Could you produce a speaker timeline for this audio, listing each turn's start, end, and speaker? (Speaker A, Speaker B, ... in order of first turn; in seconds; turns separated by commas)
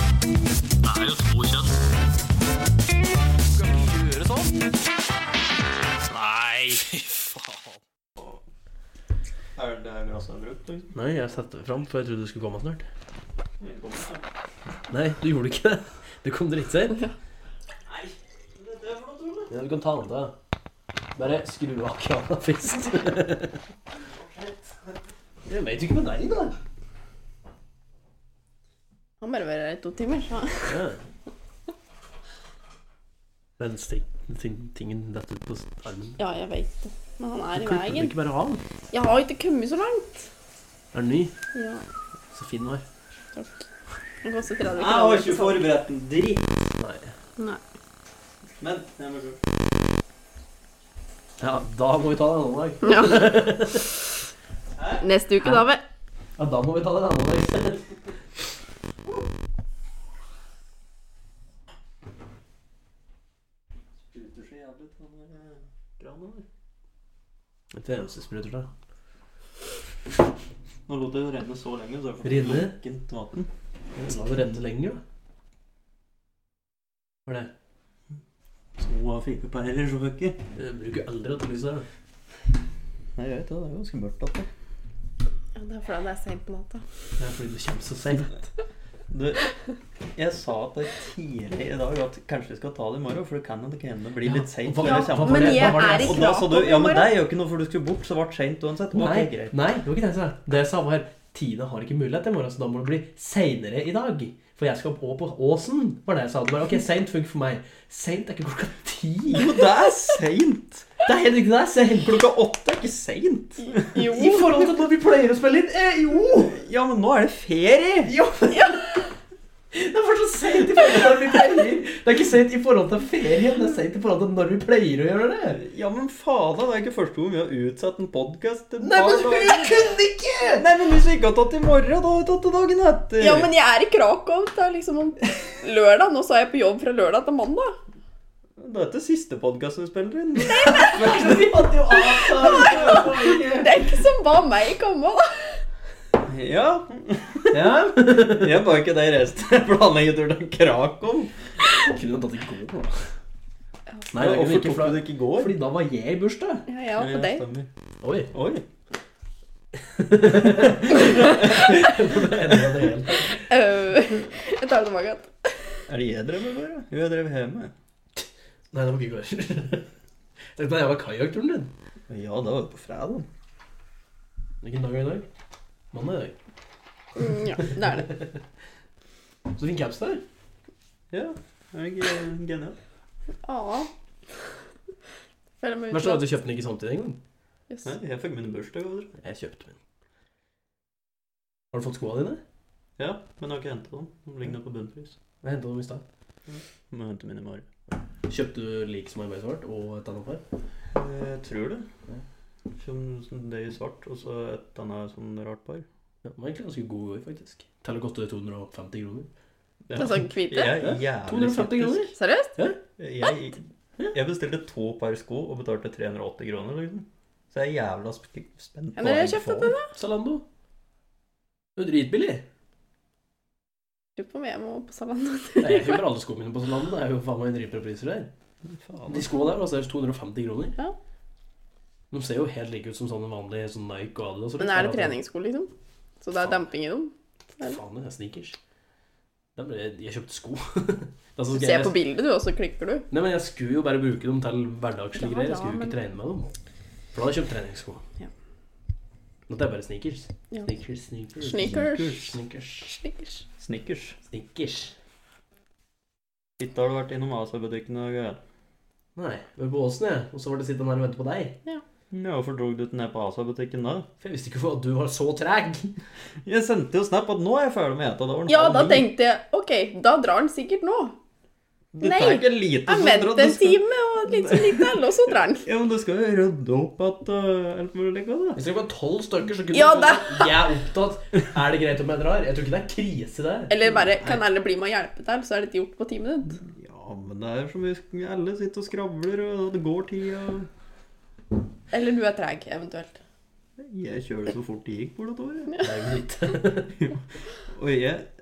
Speaker A: 0.8-1.7, Speaker A: 3.5-4.7, Speaker A: 6.0-7.8, Speaker B: 9.6-10.9, Speaker A: 10.9-12.9, Speaker B: 13.6-14.2, Speaker A: 14.9-17.1, Speaker B: 17.9-19.5, Speaker A: 19.5-20.4, Speaker A: 21.2-23.6, Speaker B: 24.0-24.9, Speaker A: 25.5-26.6, Speaker C: 29.2-30.8, Speaker A: 30.7-31.0, Speaker A: 33.6-36.2, Speaker C: 36.2-38.1, Speaker A: 37.5-38.6, Speaker C: 38.9-40.3, Speaker A: 40.9-41.4, Speaker C: 41.5-41.9, Speaker A: 42.3-42.9, Speaker C: 43.4-43.6, Speaker C: 44.2-45.6, Speaker B: 44.7-46.5, Speaker A: 46.8-47.1, Speaker B: 48.6-49.4, Speaker A: 51.4-53.9, Speaker C: 52.8-53.4, Speaker B: 54.8-55.0, Speaker C: 55.0-55.8, Speaker A: 56.4-58.0, Speaker B: 64.1-66.5, Speaker A: 67.7-68.7, Speaker B: 70.9-73.5, Speaker A: 72.2-72.8, Speaker A: 74.0-75.0, Speaker A: 77.3-77.5, Speaker B: 78.8-80.4, Speaker A: 80.6-81.9, Speaker B: 83.2-84.5, Speaker C: 85.5-86.8, Speaker A: 87.2-88.4, Speaker B: 89.1-89.4, Speaker B: 90.2-99.5, Speaker A: 94.2-96.3, Speaker C: 94.8-97.1, Speaker A: 98.9-109.5, Speaker B: 109.3-110.9, Speaker A: 111.1-112.2, Speaker B: 112.0-114.0, Speaker C: 113.6-114.6, Speaker A: 114.0-116.6, Speaker B: 116.5-118.1, Speaker A: 118.0-118.9, Speaker C: 118.5-118.8, Speaker A: 119.7-125.6, Speaker B: 125.6-129.9, Speaker A: 128.8-130.7, Speaker B: 130.5-133.5, Speaker C: 133.2-137.8, Speaker B: 138.6-143.8, Speaker A: 140.5-143.5, Speaker C: 140.6-140.9, Speaker C: 141.9-145.6, Speaker B: 146.2-151.3, Speaker A: 147.5-148.6, Speaker A: 151.8-153.1, Speaker A: 154.1-156.7, Speaker B: 154.2-155.6, Speaker C: 156.7-157.4, Speaker B: 157.0-157.7, Speaker A: 158.0-158.3, Speaker B: 158.3-158.6, Speaker A: 159.9-163.5, Speaker B: 161.2-161.6, Speaker C: 163.4-165.9, Speaker B: 165.9-167.7, Speaker A: 168.2-169.9, Speaker A: 170.6-171.7, Speaker B: 172.1-173.3, Speaker A: 174.6-175.3, Speaker A: 175.9-176.4, Speaker C: 177.2-178.1, Speaker A: 177.6-178.3, Speaker A: 179.5-180.2, Speaker B: 181.1-182.8, Speaker C: 183.4-183.9, Speaker C: 185.6-186.2, Speaker A: 185.9-187.2, Speaker B: 187.8-189.2, Speaker A: 189.2-189.8, Speaker A: 191.7-192.4, Speaker B: 193.0-195.2, Speaker A: 195.4-196.0, Speaker B: 196.5-197.7, Speaker A: 198.3-200.4, Speaker B: 200.9-201.9, Speaker B: 202.7-205.9, Speaker A: 206.2-209.3, Speaker B: 209.9-212.1, Speaker C: 209.9-210.8, Speaker A: 210.8-212.8, Speaker C: 212.1-212.6, Speaker B: 213.0-213.6, Speaker B: 214.1-219.7, Speaker C: 219.0-219.9, Speaker A: 219.9-220.4, Speaker A: 221.8-222.4, Speaker C: 224.2-226.0, Speaker A: 225.6-228.3, Speaker B: 228.7-229.3, Speaker A: 229.1-230.8, Speaker A: 232.1-235.2, Speaker C: 234.6-237.8, Speaker A: 237.6-238.6, Speaker A: 239.6-241.9, Speaker C: 241.5-243.1, Speaker A: 243.1-246.5, Speaker C: 245.2-246.0, Speaker A: 247.1-248.0, Speaker A: 249.5-252.9, Speaker C: 251.4-252.2, Speaker B: 251.5-252.3, Speaker C: 252.8-253.4, Speaker B: 253.6-254.2, Speaker A: 254.3-254.9, Speaker B: 256.6-258.4, Speaker A: 259.2-261.6, Speaker B: 262.1-264.1, Speaker A: 264.2-266.0, Speaker B: 266.4-269.1, Speaker C: 268.5-271.2, Speaker B: 271.9-275.0, Speaker C: 272.0-275.7, Speaker B: 275.6-278.6, Speaker A: 278.6-283.8, Speaker C: 279.7-280.5, Speaker C: 283.7-286.6, Speaker B: 286.7-290.7, Speaker C: 291.9-293.2, Speaker B: 293.8-295.8, Speaker A: 295.8-297.0, Speaker B: 297.0-298.3